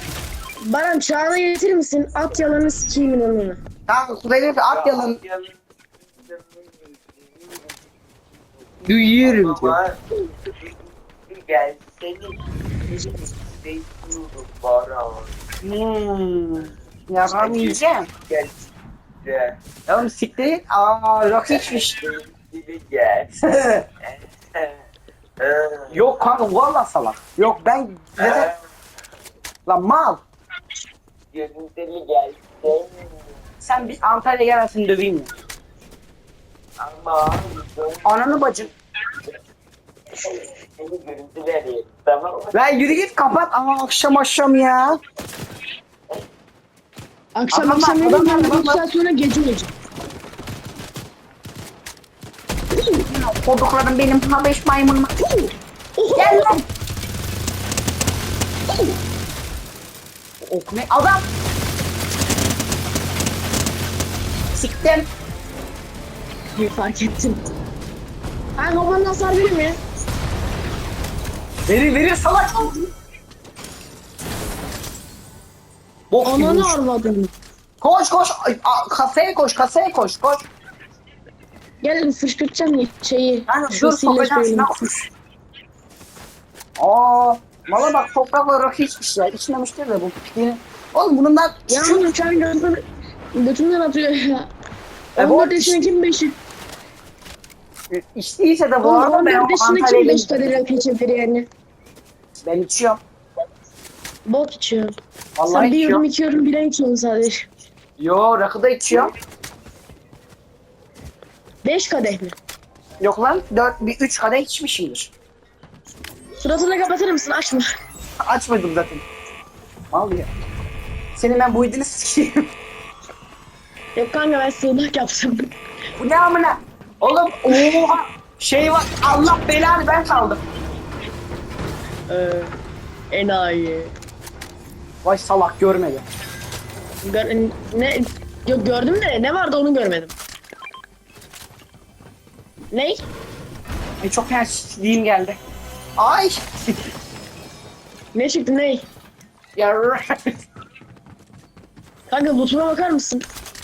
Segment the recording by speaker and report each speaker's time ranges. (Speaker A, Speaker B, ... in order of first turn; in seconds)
Speaker A: 0.6-3.6, 47.3-49.7, 52.7-53.0, 55.2-56.6, 58.7-59.0, 66.5-67.4, 68.6-69.8, 76.2-77.3, 81.8-84.7, 91.7-92.8, 93.3-94.5, 95.2-96.3, 98.8-101.5, 104.2-104.9, 105.5-107.5, 111.6-112.3, 116.4-117.7, 124.0-125.5, 127.5-127.8, 132.1-132.5, 133.1-133.9, 137.0-140.1, 142.7-143.0, 148.1-148.9, 152.1-153.2
Speaker B: 3.9-5.2, 8.8-9.8, 15.6-18.1, 19.9-22.0, 23.4-23.9, 25.9-28.5, 29.6-30.2, 33.6-35.3, 38.0-38.7, 42.5-45.0, 47.5-48.8, 53.1-55.1, 56.1-56.6, 60.4-61.2, 64.5-65.1, 71.7-72.8, 76.1-76.8, 77.8-80.5, 83.5-85.1, 86.8-92.0, 95.2-95.8, 97.9-100.5, 102.4-103.0, 105.4-106.0, 108.0-109.1, 113.0-115.1, 118.2-119.0, 119.9-120.3, 121.2-122.5, 126.0-130.4, 135.0-136.1, 144.0-145.4, 146.0-146.8, 149.6-150.4
Speaker C: 4.7-15.3, 17.3-18.6, 19.2-19.6, 21.5-23.4, 24.0-24.9, 25.4-26.0, 28.2-28.6, 31.3-33.3, 36.8-38.7, 40.2-42.5